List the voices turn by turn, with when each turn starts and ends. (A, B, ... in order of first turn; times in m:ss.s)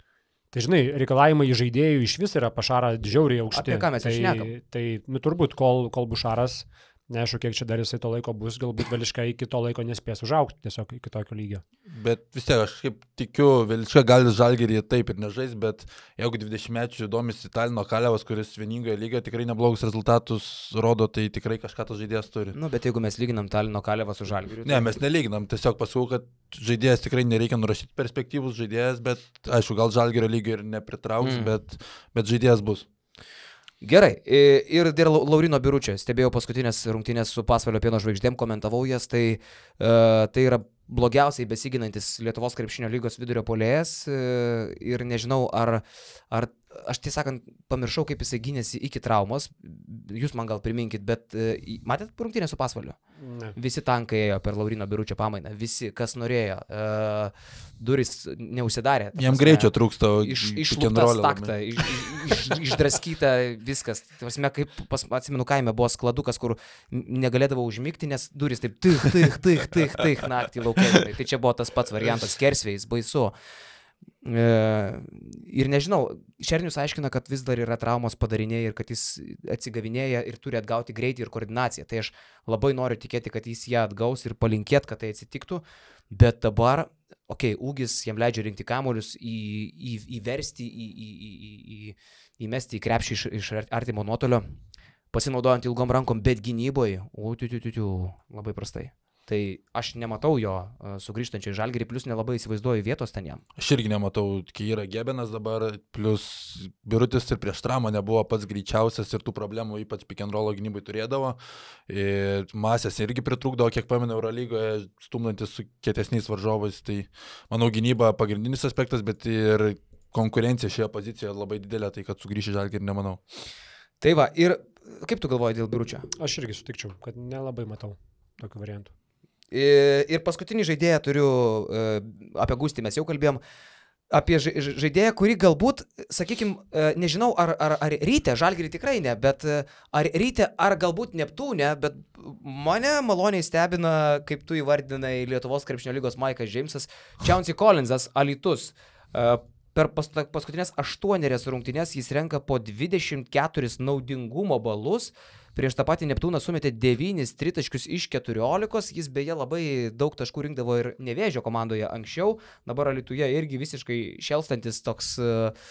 0:00.5-0:11.6 A
0:03.5-0:04.5 B
0:11.9-0:22.6 C
0:22.5-0:25.0 B
0:24.6-0:32.8 C
0:31.2-0:31.5 B
0:33.8-0:53.0 B
0:53.2-0:53.6 A
0:53.6-1:13.3 B
0:59.2-1:02.5 C
1:14.2-1:34.4 B
1:35.1-1:43.4 B
1:43.6-2:03.2 C
2:04.0-2:06.0 B
2:06.2-2:08.9 A
2:09.5-2:13.4 B
2:14.1-2:45.5 B